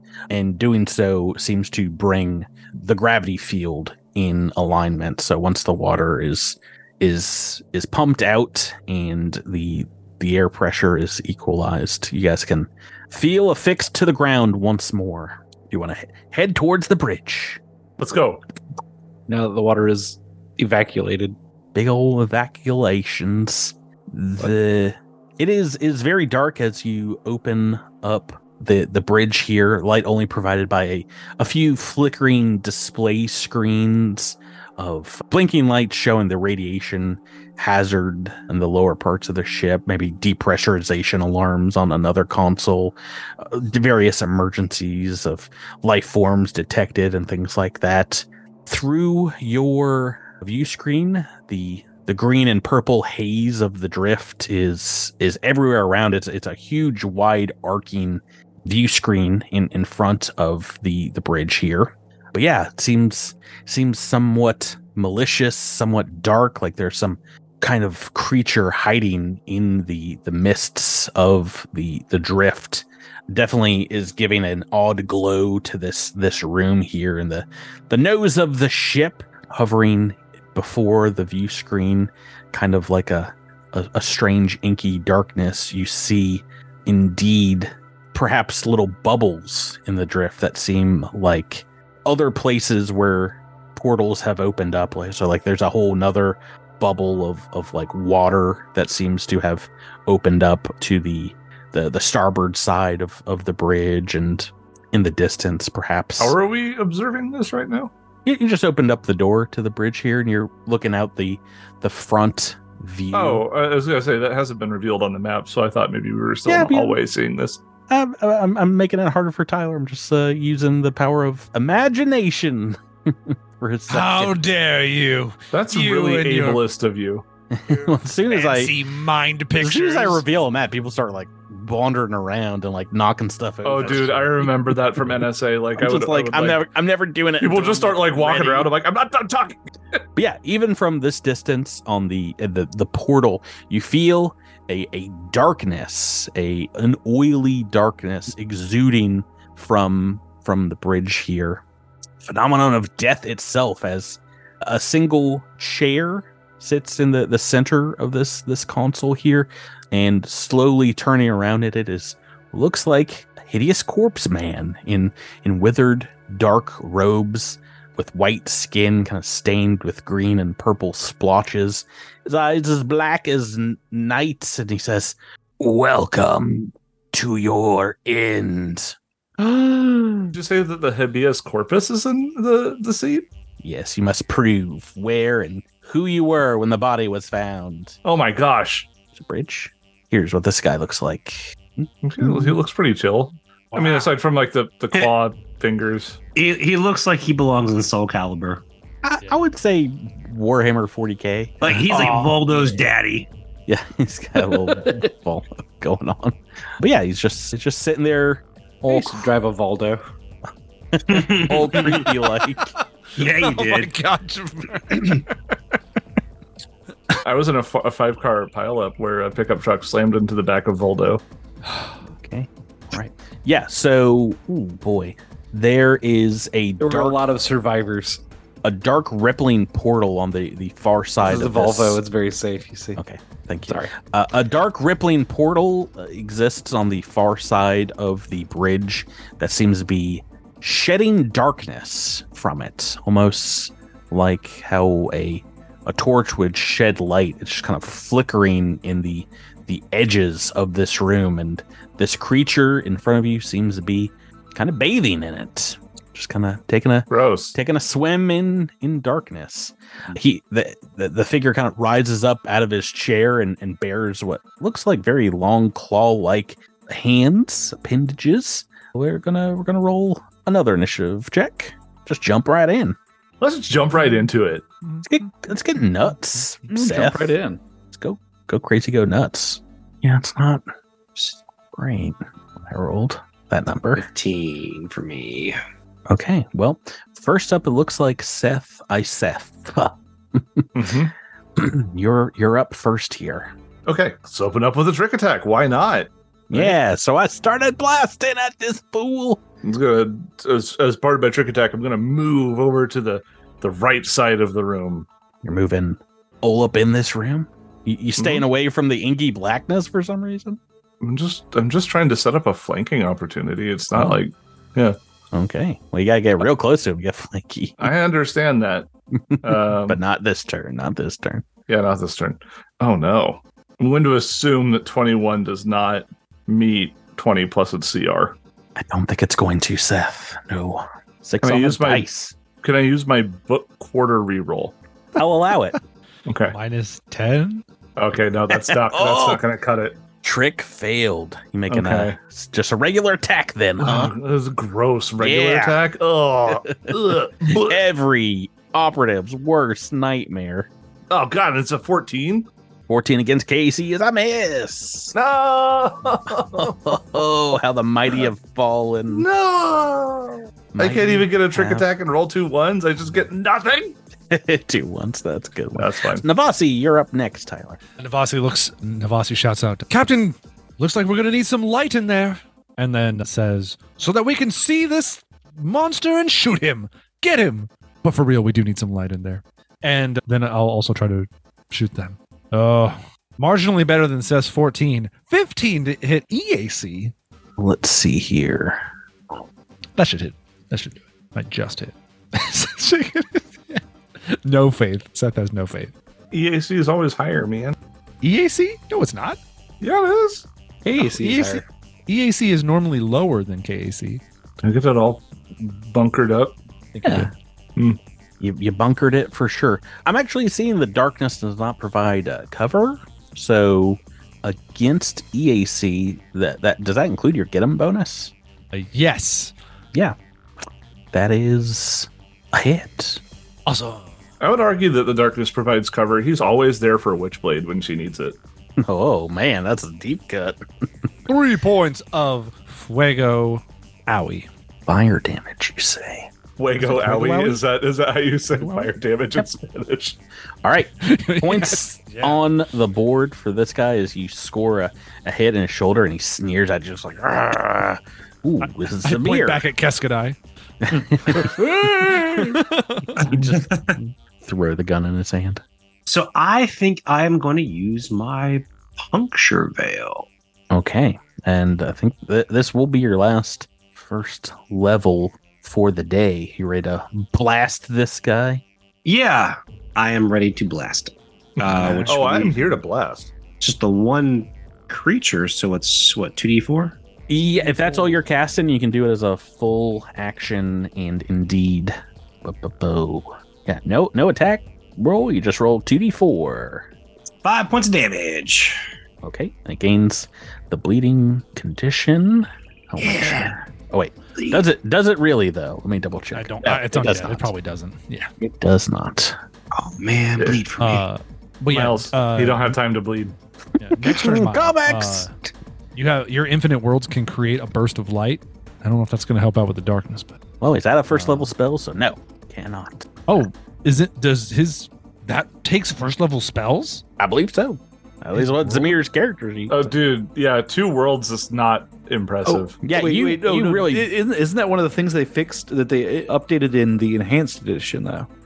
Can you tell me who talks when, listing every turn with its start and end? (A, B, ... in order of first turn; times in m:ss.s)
0:00.3-0:17.6 A
0:18.0-0:18.4 B
0:19.3-0:21.4 C
0:21.7-1:46.3 A
1:46.2-1:47.9 B
1:48.2-1:53.4 A
1:53.1-1:57.6 B
1:56.5-1:57.0 A
1:57.9-2:04.4 A
2:03.9-2:06.6 D
2:05.5-2:07.2 B
2:07.5-2:08.8 A
2:08.3-2:10.2 D
2:09.6-2:15.2 A
2:13.6-2:16.6 B
2:15.8-2:18.7 A
2:17.4-2:20.0 B
2:20.2-2:31.6 A
2:32.2-3:00.3 A
3:00.3-3:03.2 B
3:03.6-3:08.0 A
3:08.0-3:08.9 B
3:09.1-3:12.6 A
3:12.0-3:16.2 B
3:13.7-3:14.1 D
3:16.4-3:18.6 E
3:19.0-3:22.4 A
3:21.6-3:23.3 E
3:23.7-3:29.2 A
3:24.5-3:25.0 C
3:28.8-3:30.0 C
3:30.9-3:32.7 A
3:31.1-3:32.1 E
3:33.2-3:33.9 E
3:33.2-3:35.3 D
3:37.2-3:41.2 B
3:42.2-3:47.2 A
3:46.8-3:48.2 C
3:48.6-3:52.0 A
3:51.2-3:53.0 C
3:53.0-4:33.0 A
4:17.1-4:17.6 B
4:33.4-4:34.7 B
4:35.0-4:37.3 A
4:36.7-4:37.6 C
4:37.9-4:40.6 A
4:41.2-4:44.0 A
4:43.9-4:45.6 E
4:46.1-4:50.9 A
4:50.7-4:51.1 B
4:51.6-4:53.5 A
4:53.9-4:56.8 B
4:56.5-4:59.4 A
4:59.6-5:05.1 B
5:05.4-5:10.6 A
5:08.2-5:08.4 B
5:11.0-5:15.0 B
5:15.3-5:17.9 A
5:17.8-5:18.9 B
5:19.2-5:21.4 A
5:19.4-5:20.0 B
5:21.7-5:28.4 B
5:28.8-5:32.4 A
5:31.4-5:32.0 B
5:32.6-5:34.7 B
5:35.2-5:35.8 A
5:36.3-5:36.5 B
5:36.5-5:37.6 D
5:38.0-5:40.0 B
5:38.5-5:39.4 A
5:40.2-5:44.1 A
5:41.7-5:42.2 B
5:43.8-5:47.8 B
5:45.2-5:45.8 A
5:46.5-5:50.7 A
5:51.1-5:52.5 B
5:52.9-5:55.1 A
5:55.1-5:56.7 B
5:56.4-5:59.2 A
5:59.1-6:03.9 B
6:00.7-6:01.8 A
6:04.3-6:07.8 A
6:05.7-6:06.2 B
6:08.0-6:27.1 D
6:27.6-6:28.8 A
6:30.0-6:35.9 D
6:36.3-6:37.7 B
6:38.2-6:39.4 D
6:39.8-6:40.5 B
6:40.8-6:41.6 C
6:41.0-6:44.2 D
6:44.6-6:46.6 B
6:47.0-6:47.3 D
6:47.0-6:47.3 C
6:48.4-6:58.3 A
6:58.7-6:59.5 D
7:01.1-7:03.2 A
7:03.7-7:04.1 D
7:04.4-7:08.4 B
7:08.8-7:10.6 A
7:11.3-7:14.5 D
7:14.9-7:16.3 A
7:16.6-7:20.2 B
7:16.8-7:17.6 D
7:18.5-7:18.9 D
7:20.6-7:29.6 A
7:21.0-7:22.4 D
7:28.6-7:30.4 D
7:30.8-7:32.4 A
7:30.9-7:33.2 D
7:31.3-7:32.5 C
7:33.2-7:35.6 A
7:33.2-7:34.0 E
7:36.1-7:40.3 E
7:40.7-7:48.6 A
7:49.0-7:52.8 E
7:51.6-7:53.3 B
7:53.6-7:57.0 E
7:57.3-8:06.9 A
8:07.4-8:08.8 E
8:09.2-8:17.5 A
8:13.0-8:13.5 E
8:14.4-8:14.6 E
8:16.3-8:18.3 D
8:18.4-8:19.4 A
8:19.7-8:21.0 E
8:20.4-8:20.6 B
8:20.8-8:22.8 D
8:21.7-8:23.3 B
8:23.8-8:25.3 D
8:24.0-8:25.4 A
8:25.9-8:30.4 D
8:30.6-8:33.2 A
8:31.1-8:31.5 D
8:33.3-8:37.0 D
8:37.2-8:39.9 A
8:38.4-8:38.9 D
8:39.7-8:42.8 B
8:42.4-8:48.3 C
8:42.8-8:44.1 A